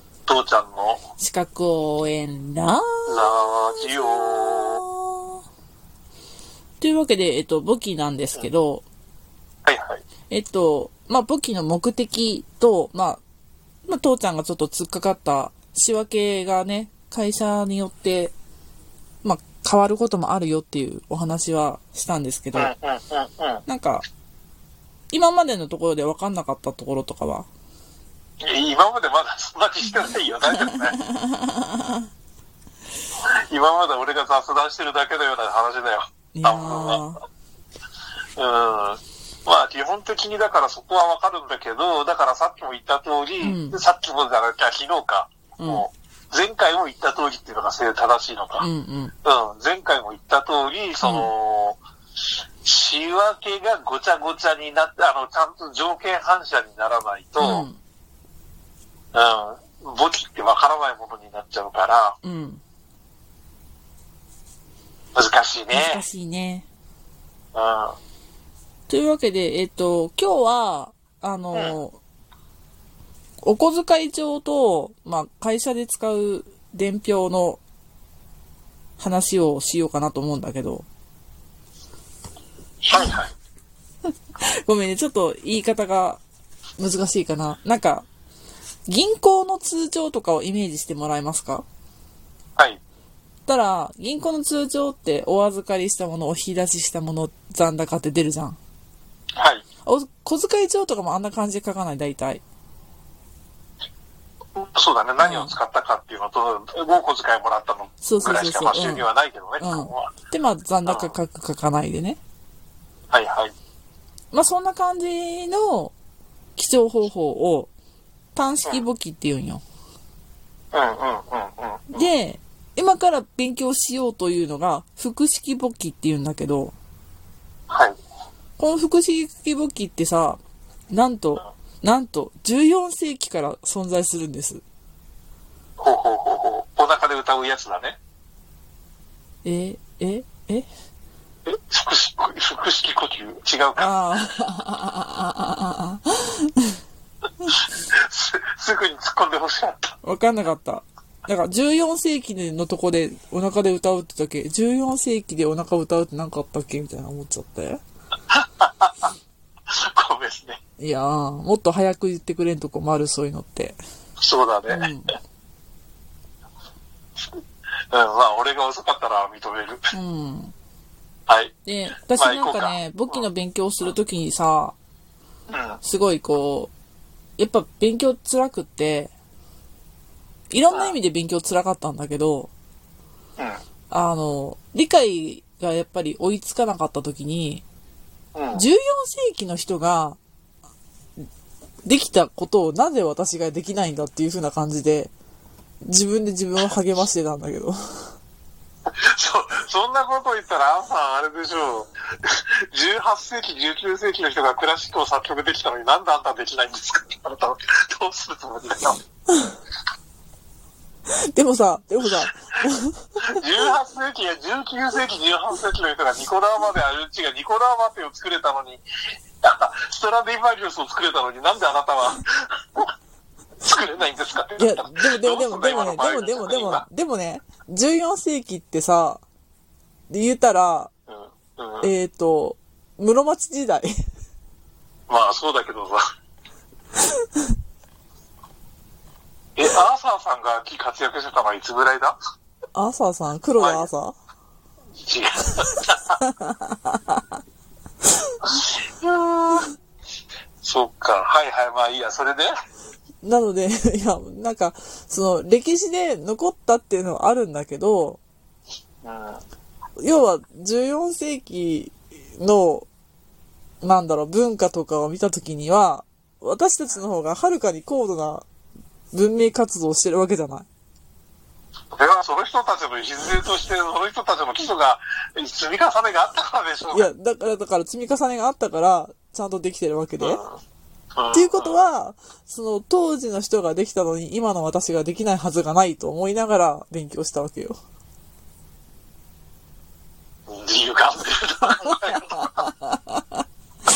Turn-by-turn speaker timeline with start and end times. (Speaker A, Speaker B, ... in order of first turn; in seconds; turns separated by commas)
Speaker A: 0.3-1.0, Speaker B: 1.2-3.3, Speaker A: 3.1-4.8, Speaker B: 3.9-5.4, Speaker B: 6.8-8.8, Speaker A: 9.7-10.0, Speaker B: 10.3-13.2, Speaker B: 13.9-18.4, Speaker B: 19.2-22.7, Speaker A: 22.5-23.6, Speaker B: 23.6-24.0, Speaker B: 25.1-27.5, Speaker A: 28.4-30.9, Speaker B: 30.5-32.0, Speaker A: 33.3-37.0, Speaker B: 36.3-37.2, Speaker A: 38.4-48.6, Speaker B: 43.4-43.8, Speaker B: 45.6-45.8, Speaker B: 48.6-49.1, Speaker A: 49.2-51.8, Speaker B: 51.0-51.3, Speaker A: 52.6-57.7, Speaker B: 57.4-57.8, Speaker A: 59.1-62.2, Speaker B: 62.2-62.6, Speaker A: 65.1-66.0, Speaker B: 65.7-66.7, Speaker A: 67.5-68.0, Speaker B: 68.9-72.0, Speaker B: 73.4-77.6, Speaker B: 79.0-80.8, Speaker A: 82.8-83.3, Speaker B: 84.4-86.2, Speaker B: 86.8-88.1, Speaker B: 88.9-91.6, Speaker B: 93.5-98.6, Speaker A: 99.4-99.6, Speaker B: 99.8-102.4, Speaker A: 104.5-110.1, Speaker B: 105.2-105.5, Speaker B: 108.0-109.0, Speaker B: 109.6-112.2, Speaker A: 110.8-111.1, Speaker A: 113.1-113.5, Speaker B: 114.3-115.9, Speaker B: 116.5-117.7, Speaker B: 118.3-119.6, Speaker A: 120.7-122.1, Speaker B: 121.9-126.7, Speaker A: 127.7-128.0, Speaker B: 128.6-134.6, Speaker A: 135.8-138.0, Speaker B: 139.4-140.7, Speaker A: 141.4-143.9, Speaker B: 143.8-146.7, Speaker A: 147.9-150.0, Speaker B: 150.0-157.8, Speaker A: 158.3-159.1, Speaker A: 159.7-160.6, Speaker B: 160.8-163.8, Speaker A: 164.2-164.9, Speaker B: 164.7-165.2, Speaker A: 167.9-169.8, Speaker B: 169.9-170.5, Speaker A: 171.3-173.2, Speaker B: 171.7-174.8, Speaker A: 175.5-175.8, Speaker B: 175.8-176.7, Speaker B: 177.4-179.1, Speaker B: 180.5-182.5, Speaker B: 183.9-187.6, Speaker A: 188.3-188.6, Speaker B: 188.5-190.2, Speaker B: 191.8-195.1, Speaker B: 195.8-198.1, Speaker A: 199.0-209.0, Speaker B: 211.1-213.3, Speaker A: 213.4-218.8, Speaker A: 219.4-222.9, Speaker A: 223.6-226.8, Speaker B: 224.6-229.2, Speaker B: 230.1-230.9, Speaker A: 231.1-231.9, Speaker B: 231.8-233.9, Speaker A: 235.1-236.0, Speaker A: 239.6-242.2, Speaker B: 242.7-244.2, Speaker A: 243.6-243.9, Speaker A: 245.0-246.2, Speaker B: 246.2-247.2, Speaker A: 248.4-249.7, Speaker A: 250.6-252.5, Speaker B: 253.2-258.2, Speaker A: 259.0-259.4, Speaker B: 260.0-262.9, Speaker B: 263.8-268.4, Speaker B: 269.1-270.6, Speaker A: 271.9-277.1, Speaker B: 276.9-280.4, Speaker A: 280.2-280.5, Speaker A: 281.1-281.8, Speaker B: 281.3-287.8, Speaker A: 290.5-292.7